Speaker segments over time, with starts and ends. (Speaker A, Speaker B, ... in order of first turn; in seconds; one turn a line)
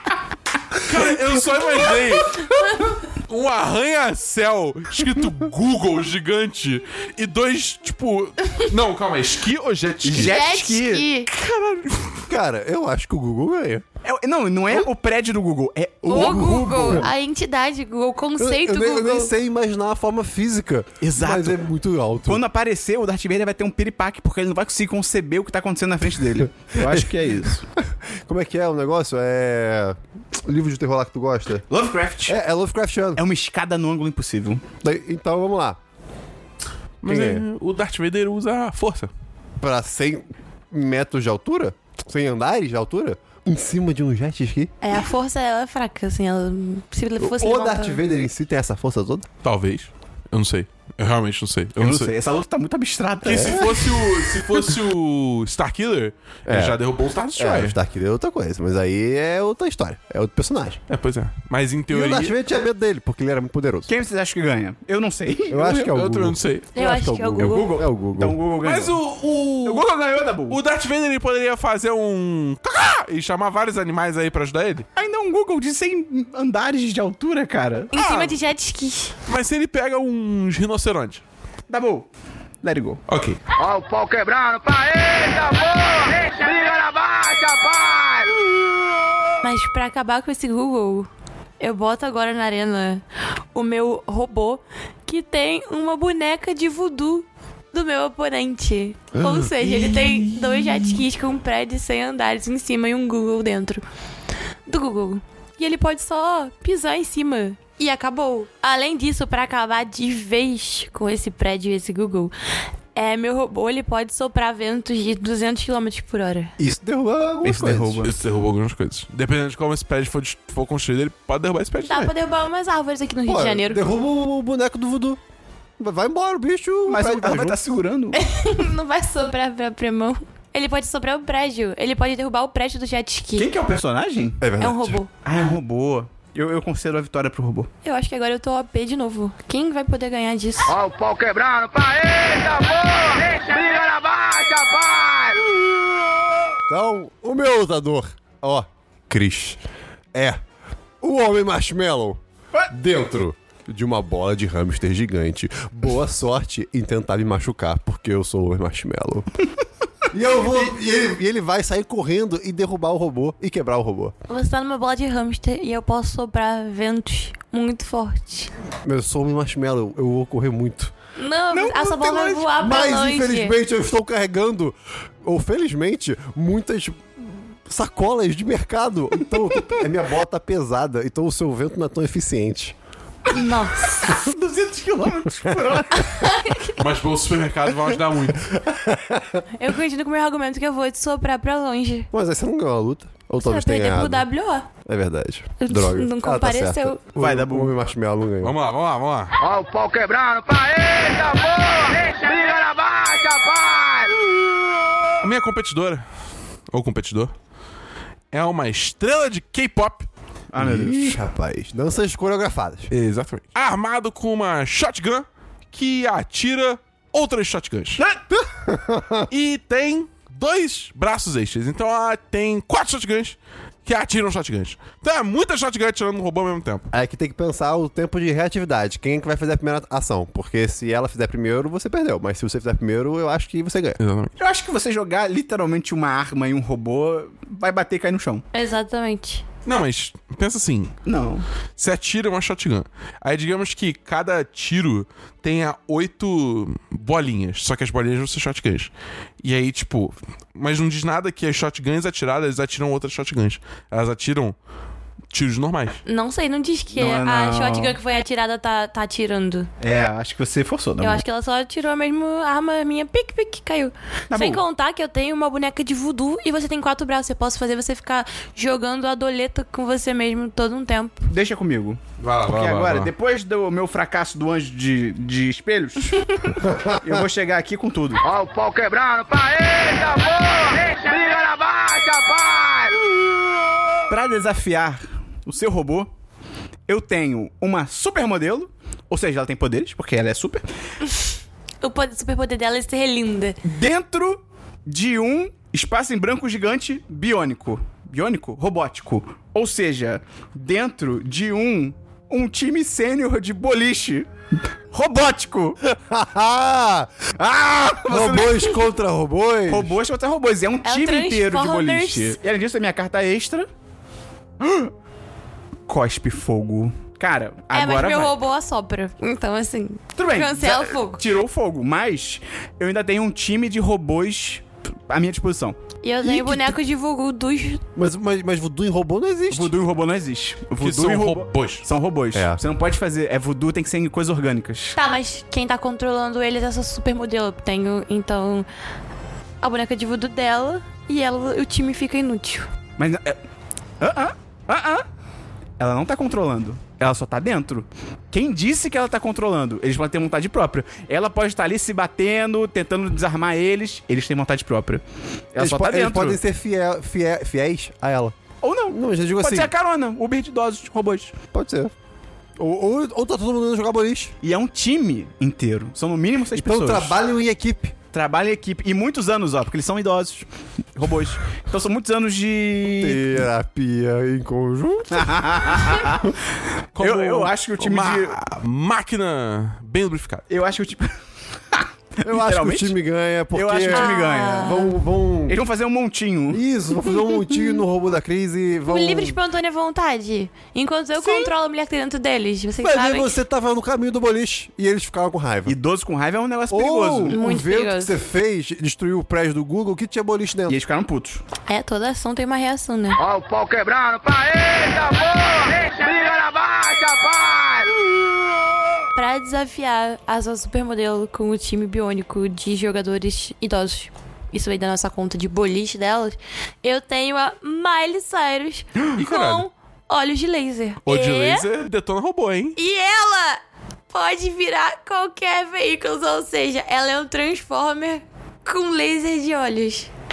Speaker A: 0.8-10.4
Speaker B: 2.4-3.0
Speaker C: 10.0-11.0
Speaker B: 10.1-11.3
Speaker A: 11.3-12.3
Speaker D: 12.3-13.8
Speaker C: 14.0-17.0
Speaker D: 16.0-17.1
Speaker B: 16.1-19.3
Speaker D: 18.4-22.4
Speaker C: 21.0-21.6
Speaker C: 22.2-27.6
Speaker D: 26.8-27.1
Speaker D: 27.8-31.6
Speaker C: 31.7-32.4
Speaker D: 32.2-33.2
Speaker C: 33.1-34.6
Speaker D: 34.8-35.8
Speaker A: 37.0-39.1
Speaker D: 37.0-37.4
Speaker D: 39.6-44.7
Speaker B: 44.8-48.0
Speaker D: 47.2-49.3
Speaker A: 49.4-52.1
Speaker C: 51.8-54.0
Speaker A: 53.2-57.8
Speaker D: 53.3-53.8
Speaker D: 56.5-56.8
Speaker D: 57.4-60.8
Speaker A: 60.9-62.3
Speaker D: 61.9-63.9
Speaker C: 63.9-65.9
Speaker D: 65.5-68.4
Speaker A: 65.7-66.7
Speaker B: 66.7-67.7
Speaker C: 67.4-69.0
Speaker A: 68.6-69.9
Speaker C: 69.6-70.6
Speaker A: 70.5-74.8
Speaker C: 75.0-77.9
Speaker B: 77.9-79.1
Speaker A: 77.9-78.3
Speaker A: 79.3-81.2
Speaker C: 81.7-82.1
Speaker C: 82.6-83.0
Speaker A: 83.1-83.4
Speaker E: 83.5-88.3
Speaker B: 89.4-91.1
Speaker B: 91.6-103.8
Speaker D: 99.2-99.8
Speaker B: 104.7-112.3
Speaker B: 112.9-116.5
Speaker D: 116.6-118.0
Speaker C: 117.4-118.2
Speaker A: 118.0-122.1
Speaker B: 121.8-123.8
Speaker D: 123.3-125.2
Speaker D: 125.8-127.6
Speaker C: 126.9-128.2
Speaker B: 128.1-133.5
Speaker C: 133.4-134.4
Speaker D: 134.4-135.0
Speaker B: 134.6-135.1
Speaker C: 135.2-137.7
Speaker B: 137.8-140.8
Speaker E: 140.7-145.4
Speaker D: 146.7-149.6
Speaker D: 150.1-150.4
Speaker D: 151.0-159.3
Speaker D: 160.1-164.1
Speaker B: 164.3-168.5
Speaker D: 168.8-170.9
Speaker B: 171.2-173.5
Speaker C: 171.5-172.5
Speaker D: 172.6-182.7
Speaker B: 183.3-184.1
Speaker C: 184.0-186.2
Speaker B: 186.1-186.8
Speaker A: 186.7-188.5
Speaker D: 188.5-189.4
Speaker B: 189.6-192.1
Speaker D: 192.1-194.2
Speaker B: 193.4-194.7
Speaker D: 194.8-198.6
Speaker B: 195.6-197.0
Speaker C: 197.2-197.7
Speaker A: 198.4-199.3
Speaker E: 199.4-204.1
Speaker A: 205.2-206.0
Speaker A: 206.7-207.3
Speaker A: 208.3-210.1
Speaker C: 210.5-211.2
Speaker D: 210.6-212.9
Speaker A: 212.9-218.0
Speaker D: 218.3-219.3
Speaker A: 219.3-226.9
Speaker D: 226.9-234.0
Speaker A: 234.0-234.3
Speaker C: 234.4-238.4
Speaker B: 238.5-239.4
Speaker A: 239.6-240.9
Speaker C: 241.1-241.4
Speaker A: 241.8-248.9
Speaker A: 249.4-254.6
Speaker A: 255.3-256.0
Speaker B: 256.0-259.7
Speaker C: 256.9-258.0
Speaker C: 259.8-261.2
Speaker B: 261.0-271.3
Speaker C: 264.3-264.6
Speaker C: 271.3-276.2
Speaker A: 272.2-273.1
Speaker D: 276.6-277.2
Speaker C: 276.9-278.2
Speaker E: 278.2-282.9
Speaker C: 284.1-286.1
Speaker C: 286.9-290.6
Speaker B: 291.8-293.6
Speaker C: 293.6-304.3
Speaker C: 304.9-305.8
Speaker D: 305.8-310.0
Speaker C: 308.0-308.8
Speaker C: 309.7-313.7
Speaker B: 310.8-312.4
Speaker C: 314.6-314.9
Speaker C: 315.9-318.3
Speaker B: 317.7-321.2
Speaker C: 320.1-325.8
Speaker B: 326.0-327.8
Speaker D: 326.2-326.8
Speaker D: 327.9-329.7
Speaker C: 329.5-335.0
Speaker A: 330.8-331.9
Speaker D: 332.3-332.6
Speaker B: 334.9-338.7
Speaker B: 339.6-342.7
Speaker C: 343.0-343.4
Speaker C: 344.0-345.1
Speaker C: 345.8-356.4
Speaker D: 355.6-358.3
Speaker C: 358.6-361.3
Speaker D: 358.9-359.7
Speaker D: 361.5-361.9
Speaker D: 362.6-364.3
Speaker C: 364.4-367.1
Speaker D: 366.6-367.9
Speaker C: 368.1-373.3
Speaker D: 372.9-375.3
Speaker C: 375.1-376.3
Speaker A: 376.9-380.4
Speaker C: 377.0-378.4
Speaker C: 380.5-381.1
Speaker C: 381.7-382.9
Speaker D: 382.2-385.6
Speaker C: 383.5-384.8
Speaker B: 383.9-384.9
Speaker C: 385.5-387.1
Speaker D: 386.5-389.4
Speaker B: 388.9-393.3
Speaker D: 392.8-395.8
Speaker C: 395.6-397.4
Speaker D: 396.7-400.8
Speaker B: 397.3-398.2
Speaker C: 400.7-401.4
Speaker B: 401.6-403.2
Speaker E: 403.2-407.9
Speaker B: 409.1-421.6
Speaker A: 419.1-419.6
Speaker A: 421.0-422.8
Speaker B: 422.8-430.1